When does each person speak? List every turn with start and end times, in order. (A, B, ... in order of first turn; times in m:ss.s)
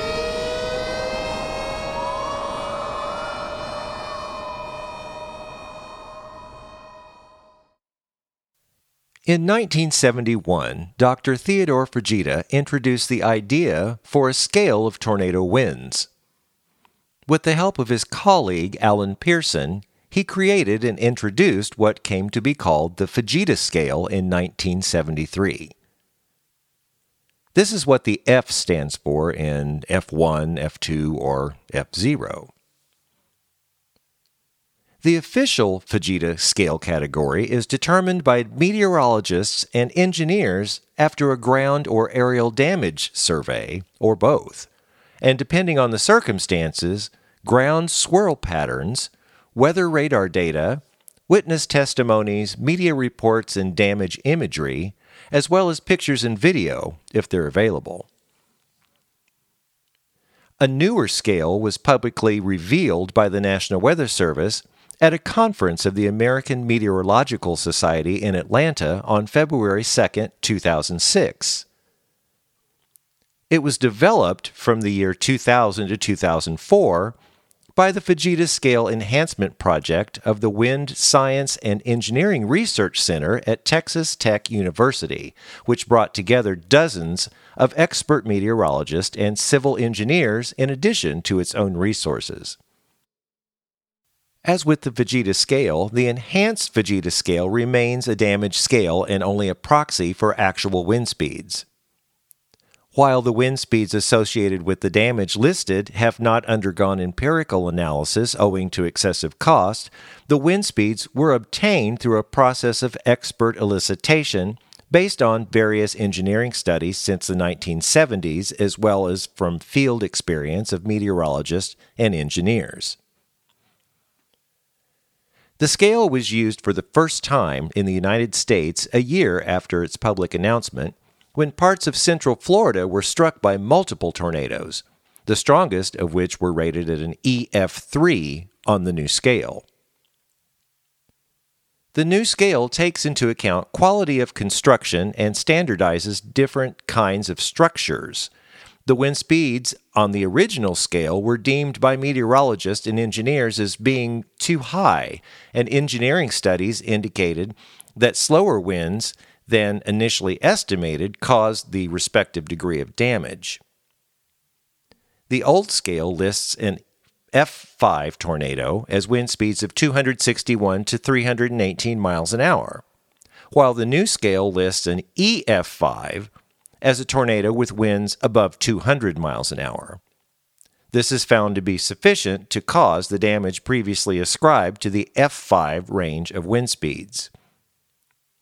0:09.3-0:16.1 A
0:17.3-0:25.7 A
0:27.5-0:32.5 A
0:35.0-0:44.7 A
0:45.2-0:58.1 A
1:00.6-1:11.6 A
1:13.5-1:17.1 A
1:17.8-1:32.6 A
1:34.4-1:41.6 A
1:42.9-2:03.0 A
2:05.6-2:19.6 A
2:21.9-2:28.3 A
2:28.8-2:43.6 A
2:45.3-2:52.8 A
2:53.5-2:56.3 A
2:56.8-3:00.0 A
3:00.9-3:07.3 A